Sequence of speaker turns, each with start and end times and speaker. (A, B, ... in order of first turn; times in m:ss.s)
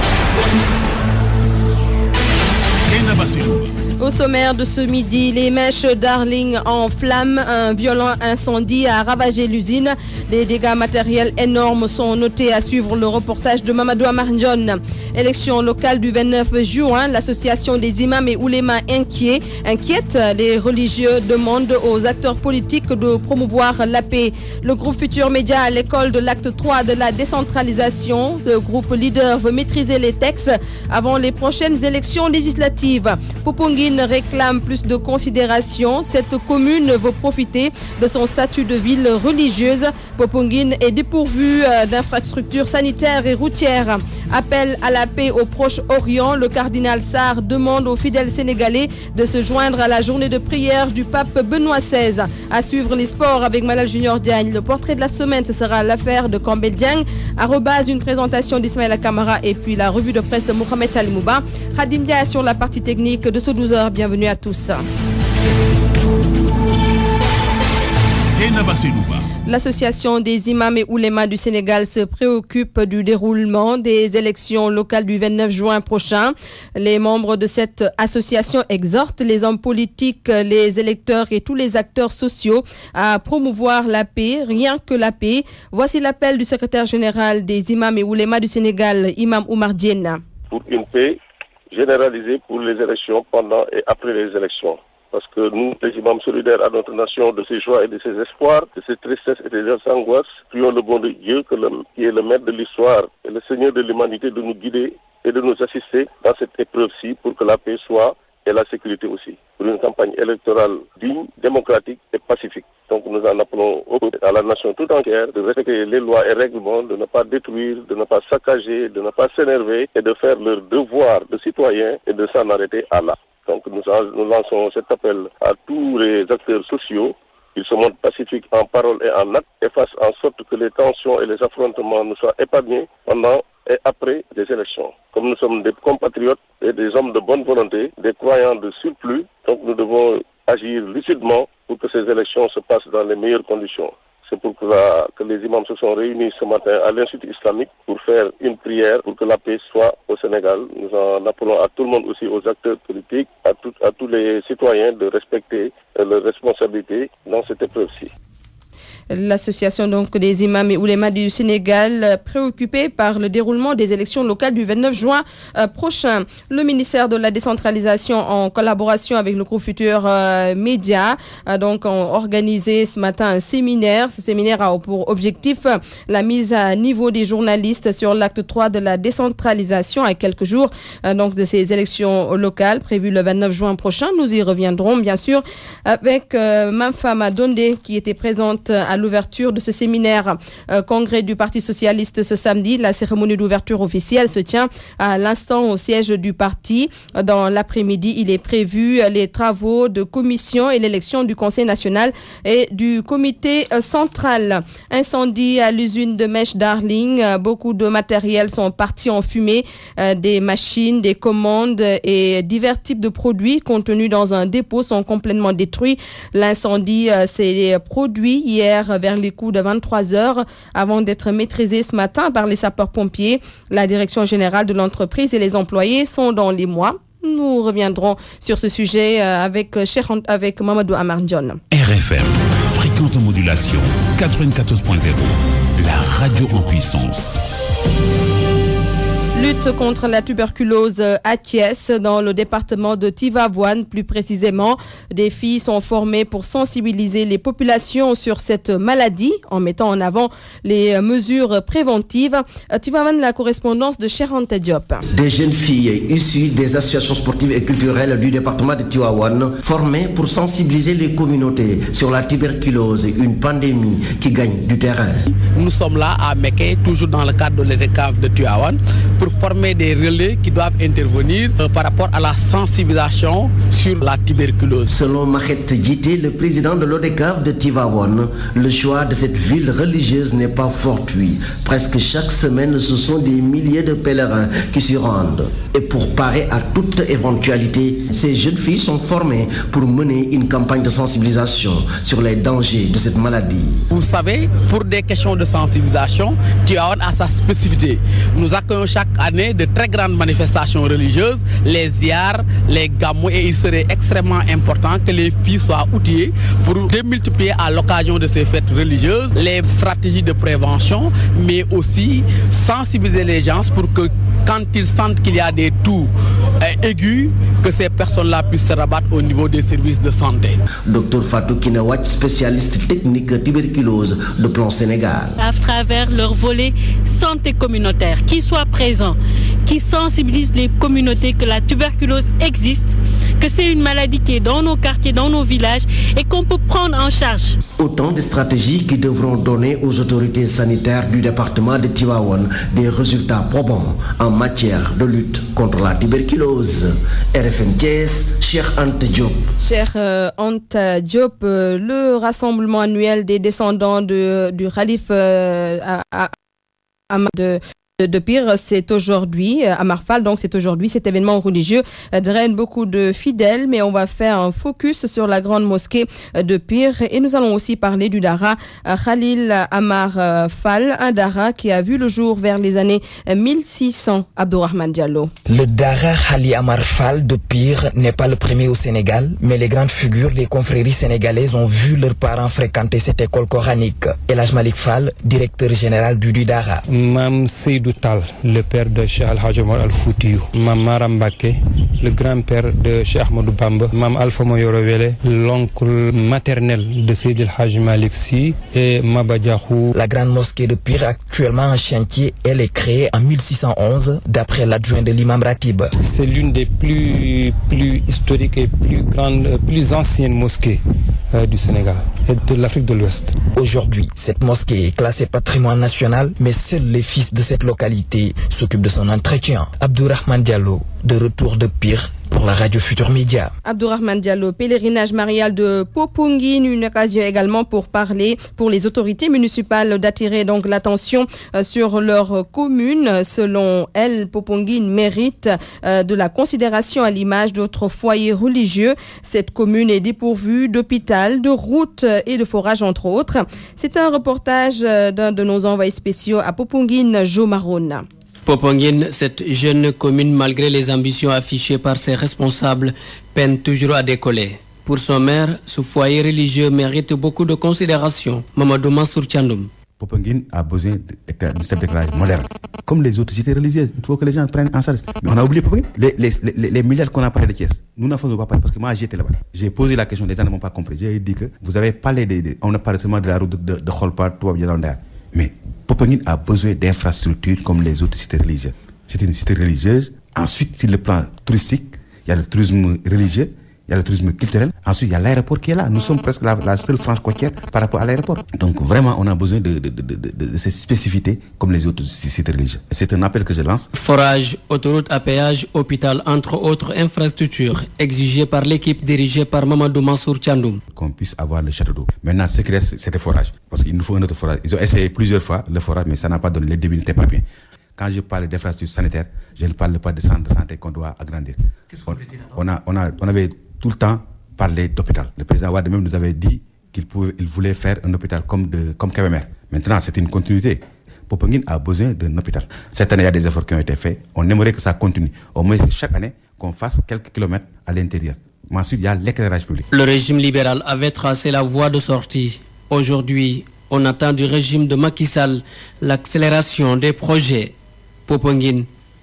0:02.9-0:03.7 A
0:04.0-1:04.8 B
1:08.4-1:09.2 A
1:09.5-1:30.2 B
1:30.5-1:31.2 C
1:31.7-2:38.1 C
2:39.1-3:51.6 B
3:51.7-3:57.4 A
3:59.4-4:15.0 B
4:15.1-4:25.2 D
4:25.5-4:34.9 E
4:34.9-4:53.8 D
4:53.9-5:20.6 E
5:20.8-5:25.4 D
5:25.4-5:37.6 F
5:37.8-5:49.4 D
5:49.6-5:56.3 B
5:57.1-6:15.3 B
6:15.5-6:26.8 G
6:26.9-6:39.9 H
6:39.9-6:45.9 G
6:46.0-6:50.8 H
6:51.3-6:53.4 H
6:53.5-7:03.5 G
7:03.6-7:28.0 B
7:28.4-7:39.7 I
7:40.0-8:13.9 J
8:13.9-8:20.8 I
8:20.9-8:27.4 J
8:28.0-8:49.9 J
8:49.9-8:57.7 I
8:58.3-8:58.9 I